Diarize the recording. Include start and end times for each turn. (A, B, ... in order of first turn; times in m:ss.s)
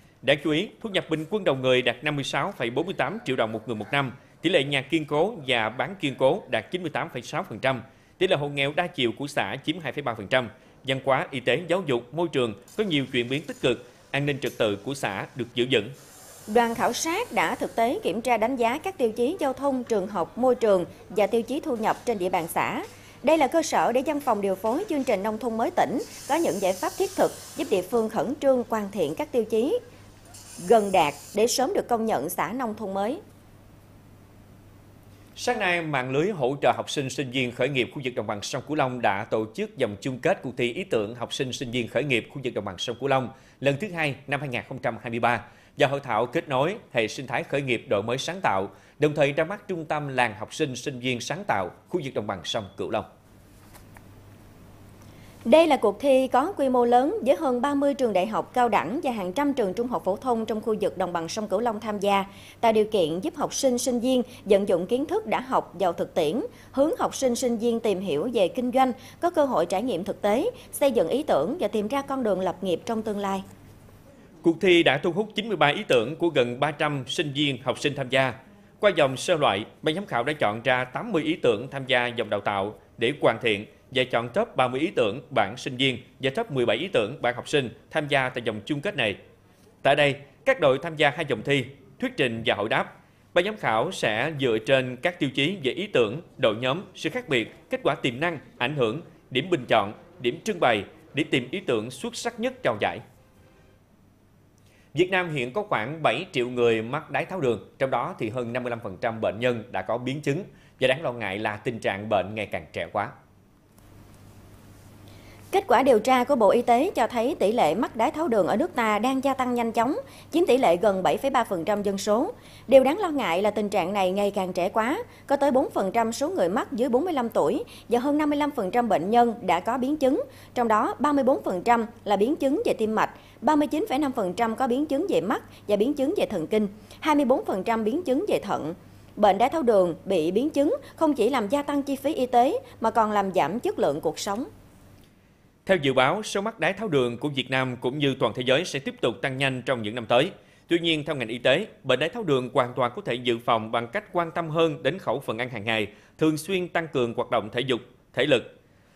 0:00.2-0:15.9 A
0:16.5-0:29.8 B
0:30.6-0:33.2 B
0:35.4-0:53.1 A
0:55.4-1:13.4 B
1:14.4-1:29.2 A
1:29.8-1:43.0 A
1:44.9-1:53.1 A
1:55.5-2:24.5 B
2:25.7-2:38.5 A